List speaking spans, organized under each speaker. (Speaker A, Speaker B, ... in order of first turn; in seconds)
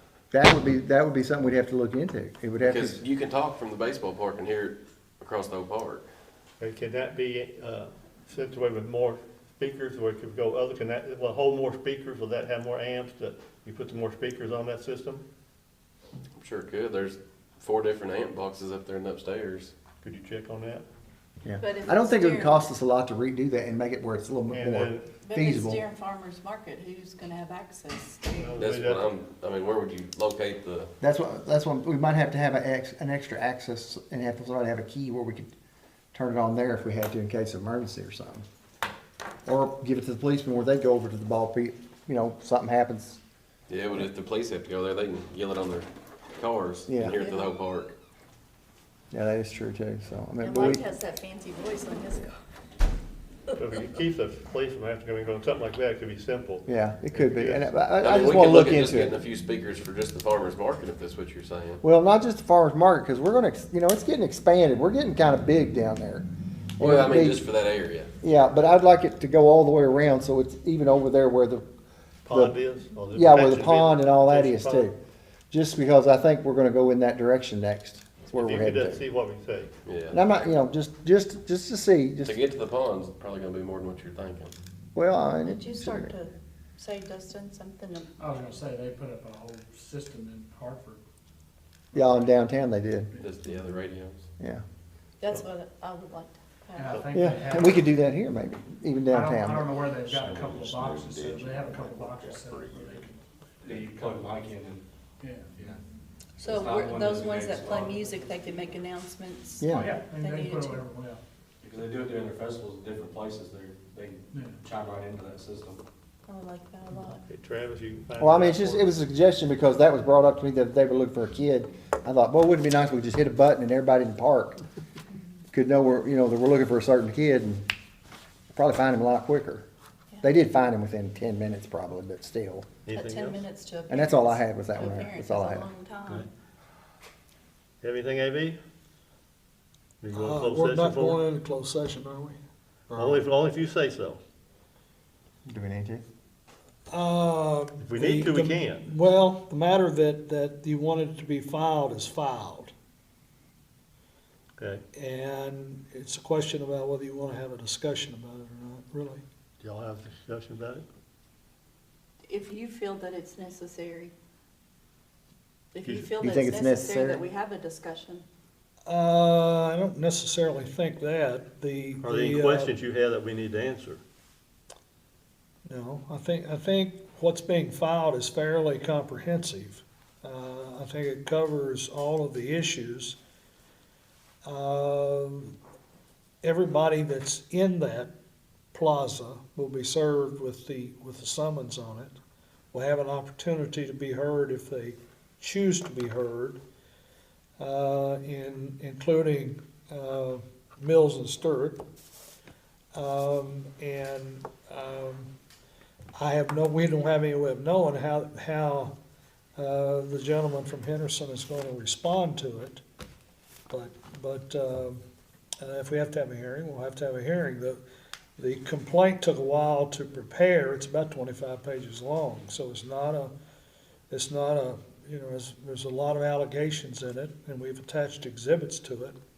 Speaker A: 0.3-3.0, 21.4-25.8, 31.0-35.5, 36.1-38.4, 39.5-43.2, 46.9-47.2, 49.1-50.8, 56.7-59.2, 61.8-67.5, 68.2-71.6, 72.3-72.6, 73.1-75.0, 75.5-79.0, 80.1-82.4, 85.0-86.1, 91.9-93.1, 97.1-99.8, 109.6-110.0, 118.2-124.6, 125.5-127.7, 128.5-129.7, 130.2-132.7, 133.9-135.7, 142.9-143.2, 145.5-146.0, 166.2-167.2
Speaker B: 2.6-6.1, 16.4-19.7, 28.6-30.9, 43.7-48.0, 58.0-61.8, 66.8-68.1, 79.9-80.5, 82.2-84.5, 93.2-94.3
Speaker C: 6.6-15.2, 20.0-20.9, 24.5-25.1, 28.4-29.1, 53.6-57.7, 72.3-74.9, 78.3-79.7, 96.9-97.2, 117.3-118.9, 132.9-133.4, 137.8-138.6, 140.0-141.2, 142.9-144.2, 147.8-148.9, 154.6-154.8, 159.6-160.8, 172.0-174.0
Speaker D: 21.6-22.7, 25.2-28.6, 47.2-47.5, 50.4-52.3, 85.4-88.3, 95.2-97.0, 106.4-110.9, 116.3-117.2, 132.9-136.3, 162.3-164.1, 165.7-168.2
Speaker E: 88.2-91.0, 92.0-92.2, 96.8-97.9, 99.1-104.3, 105.2-105.8, 109.7-111.2, 114.3-114.6
Speaker F: 100.2-102.3, 103.6-104.8, 106.4-108.1, 111.6-115.8
Speaker G: 140.1-142.4, 146.9-152.7, 154.9-159.2, 168.9-172.7, 175.7-183.2, 184.4-185.6, 186.4-188.1, 188.7-192.2, 192.7-196.6, 197.6-201.8, 202.9-205.3, 206.2-208.9, 209.6-212.8, 213.7-215.0, 215.6-217.8, 218.4-223.3, 224.1-229.2